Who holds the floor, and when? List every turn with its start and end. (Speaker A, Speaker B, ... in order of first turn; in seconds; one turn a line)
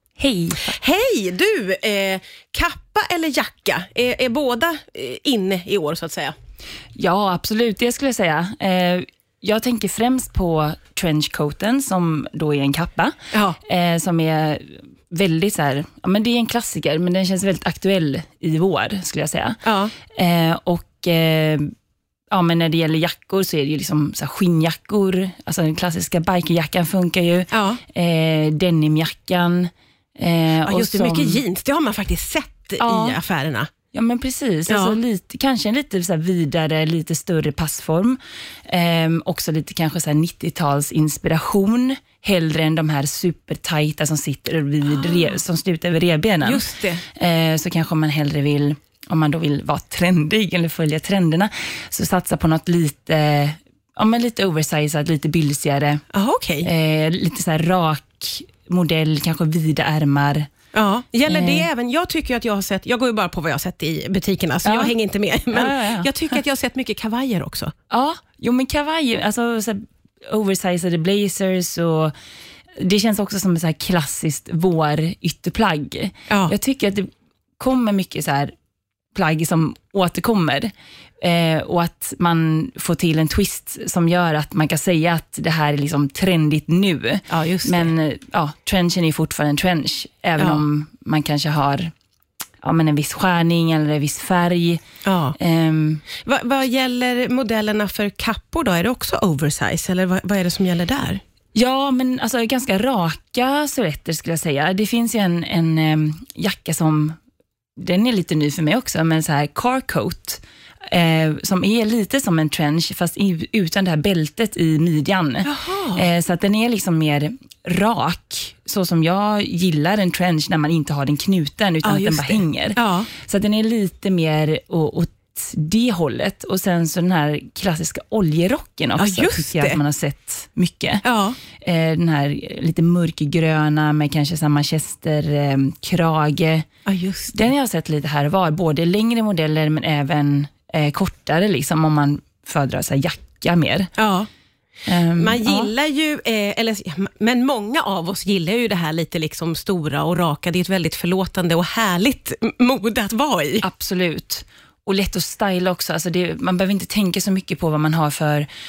Speaker A: 0.2-0.7
Speaker B: 0.6-6.3
Speaker A: 7.0-21.7
Speaker B: 13.3-13.6
Speaker B: 19.6-19.9
Speaker A: 22.3-31.4
Speaker B: 27.5-27.8
Speaker B: 30.6-33.7
Speaker A: 32.8-33.2
Speaker A: 33.9-56.0
Speaker B: 34.7-35.0
Speaker B: 45.0-45.3
Speaker B: 46.4-47.0
Speaker B: 56.1-56.7
Speaker A: 56.6-60.5
Speaker B: 60.7-67.7
Speaker A: 61.3-61.7
Speaker A: 64.6-64.9
Speaker A: 65.5-66.2
Speaker A: 67.9-72.1
Speaker A: 72.8-77.1
Speaker B: 76.3-76.5
Speaker A: 77.6-78.5
Speaker A: 79.1-91.9
Speaker B: 87.3-87.9
Speaker A: 92.6-94.8
Speaker B: 95.0-95.3
Speaker A: 95.4-96.0
Speaker B: 96.2-101.2
Speaker A: 101.5-107.2
Speaker A: 107.8-131.0
Speaker B: 115.4-116.0
Speaker B: 121.8-123.1
Speaker B: 129.0-129.8
Speaker B: 131.0-131.4
Speaker A: 131.6-136.7
Speaker B: 136.8-137.5
Speaker A: 137.3-143.9
Speaker B: 144.0-144.3
Speaker A: 144.8-145.7
Speaker B: 145.2-153.6
Speaker A: 153.6-158.5